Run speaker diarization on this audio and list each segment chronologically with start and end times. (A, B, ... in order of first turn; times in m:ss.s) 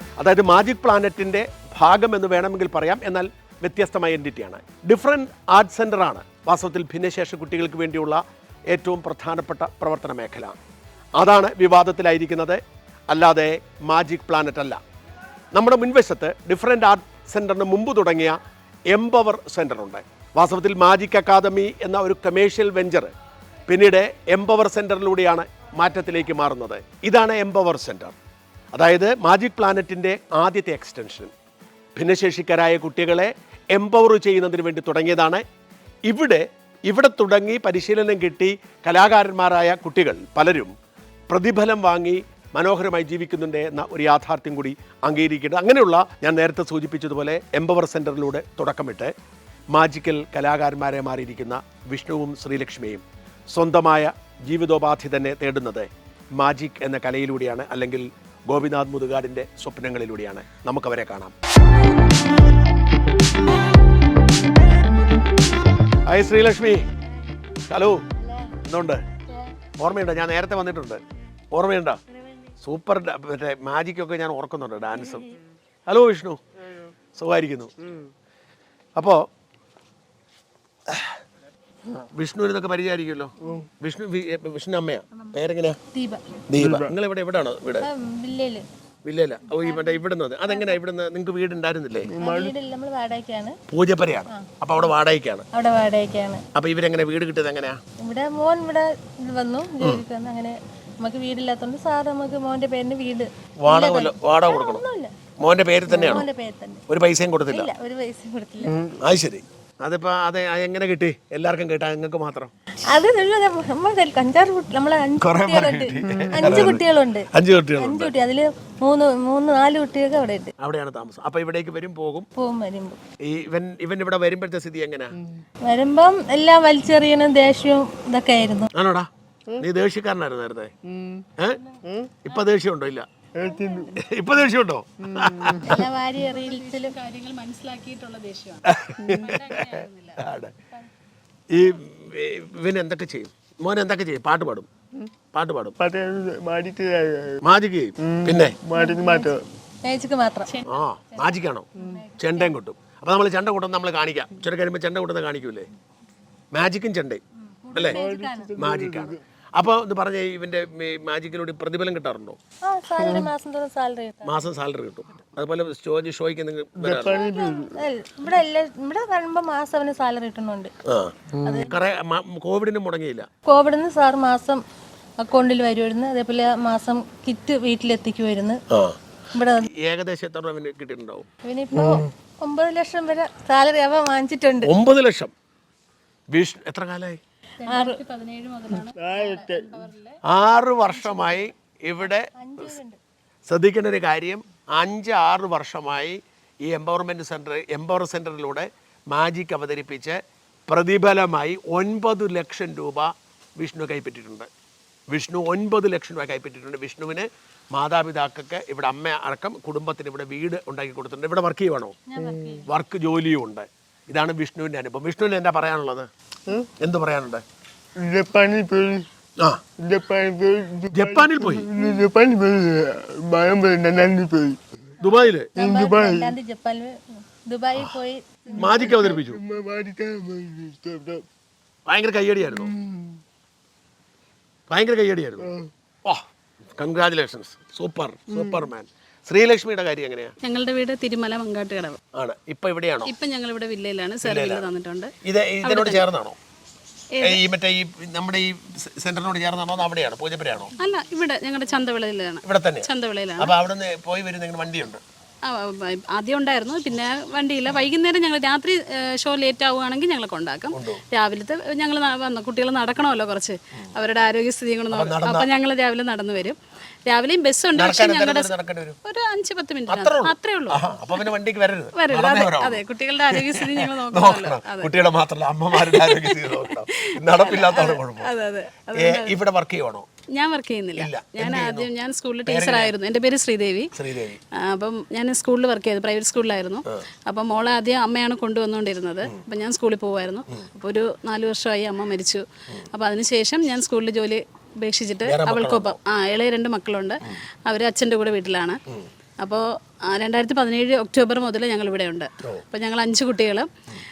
0:00.2-0:10.6 A
0:11.2-0:14.8 A
0:15.5-0:18.4 A
0:18.9-0:23.1 A
0:23.7-0:28.2 A
0:28.7-0:31.3 A
0:32.0-0:35.4 A
0:36.1-0:40.7 A
0:41.3-0:49.1 A
0:49.7-1:01.3 A
1:06.1-1:06.8 A
1:07.7-1:08.0 A
1:08.6-1:09.0 A
1:09.8-1:11.0 A
1:11.5-1:12.0 A
1:12.6-1:15.3 A
1:15.9-1:16.4 A
1:17.2-1:17.7 A
1:19.0-1:19.3 A
1:20.9-1:21.2 A
1:22.1-1:25.8 A
1:23.4-1:23.7 B
1:25.9-1:26.2 C
1:26.5-1:27.9 A
1:26.6-1:26.9 B
1:27.8-1:28.6 C
1:29.0-1:32.1 A
1:32.1-1:32.6 B
1:32.2-1:33.6 C
1:33.7-1:35.5 A
1:35.5-1:36.4 C
1:36.6-1:37.8 A
1:38.0-1:45.2 C
1:43.6-1:44.8 A
1:45.4-1:46.3 A
1:45.9-1:46.8 C
1:46.9-1:47.7 A
1:47.5-1:48.8 C
1:48.6-1:49.0 B
1:49.0-1:52.5 A
1:52.9-2:00.5 C
1:55.2-1:58.1 A
1:56.1-1:56.8 B
2:00.6-2:02.3 A
2:02.4-2:03.0 C
2:03.2-2:05.1 A
2:05.7-2:08.7 C
2:08.7-2:10.7 A
2:10.9-2:11.3 B
2:11.8-2:12.2 B
2:12.2-2:13.1 A
2:13.4-2:14.0 B
2:14.0-2:15.8 A
2:15.1-2:15.9 B
2:15.7-2:16.9 C
2:16.3-2:20.2 D
2:18.7-2:20.5 A
2:21.5-2:24.7 A
2:25.3-2:25.8 A
2:25.8-2:27.4 B
2:27.4-2:28.6 A
2:28.0-2:29.4 B
2:28.8-2:29.3 C
2:29.9-2:30.5 C
2:30.7-2:31.7 A
2:31.8-2:32.5 C
2:32.2-2:35.7 A
2:36.5-2:37.2 A
2:37.6-2:38.6 C
2:37.8-2:39.2 B
2:38.6-2:42.4 A
2:42.6-2:44.4 C
2:43.0-2:43.3 B
2:44.2-2:47.2 A
2:46.8-2:47.8 B
2:47.1-2:50.7 C
2:50.9-2:53.3 A
2:51.3-2:51.7 B
2:51.4-2:51.7 C
2:53.5-2:54.6 C
2:55.2-2:58.6 C
2:58.7-2:59.0 A
2:59.3-2:59.7 C
2:59.6-3:01.3 A
3:01.4-3:04.7 C
3:04.6-3:05.3 A
3:06.3-3:07.2 A
3:07.6-3:08.0 C
3:07.7-3:10.2 D
3:09.0-3:09.8 B
3:10.3-3:12.7 A
3:11.1-3:11.4 C
3:12.4-3:13.0 C
3:13.5-3:24.5 A
3:25.1-3:32.0 A
3:32.1-3:32.7 C
3:32.2-3:32.6 B
3:32.7-3:36.1 A
3:36.8-3:37.4 A
3:38.0-3:39.0 B
3:39.8-3:44.6 B
3:40.9-3:41.7 A
3:45.0-3:45.5 A
3:45.6-3:46.4 B
3:45.6-3:49.0 C
3:48.6-3:51.2 B
3:48.6-3:49.4 A
3:51.9-3:52.7 A
3:52.5-3:53.1 B
3:54.7-3:55.5 A
3:55.4-3:55.7 B
3:56.8-4:00.3 A
4:00.4-4:02.0 D
4:02.1-4:03.1 A
4:03.1-4:06.0 D
4:04.2-4:04.6 A
4:05.2-4:06.4 A
4:07.2-4:07.4 D
4:07.2-4:10.7 A
4:10.8-4:13.5 D
4:12.4-4:15.0 A
4:15.4-4:28.5 D
4:20.7-4:21.0 A
4:24.9-4:25.5 A
4:27.8-4:29.0 A
4:29.0-4:30.8 D
4:29.9-4:38.3 A
4:32.0-4:34.9 D
4:35.8-4:39.4 D
4:39.0-4:40.1 A
4:40.4-4:43.9 D
4:41.0-4:41.9 A
4:42.5-4:42.9 A
4:43.9-4:44.4 A
4:44.6-4:58.8 D
4:55.3-4:56.0 A
4:59.4-5:03.7 D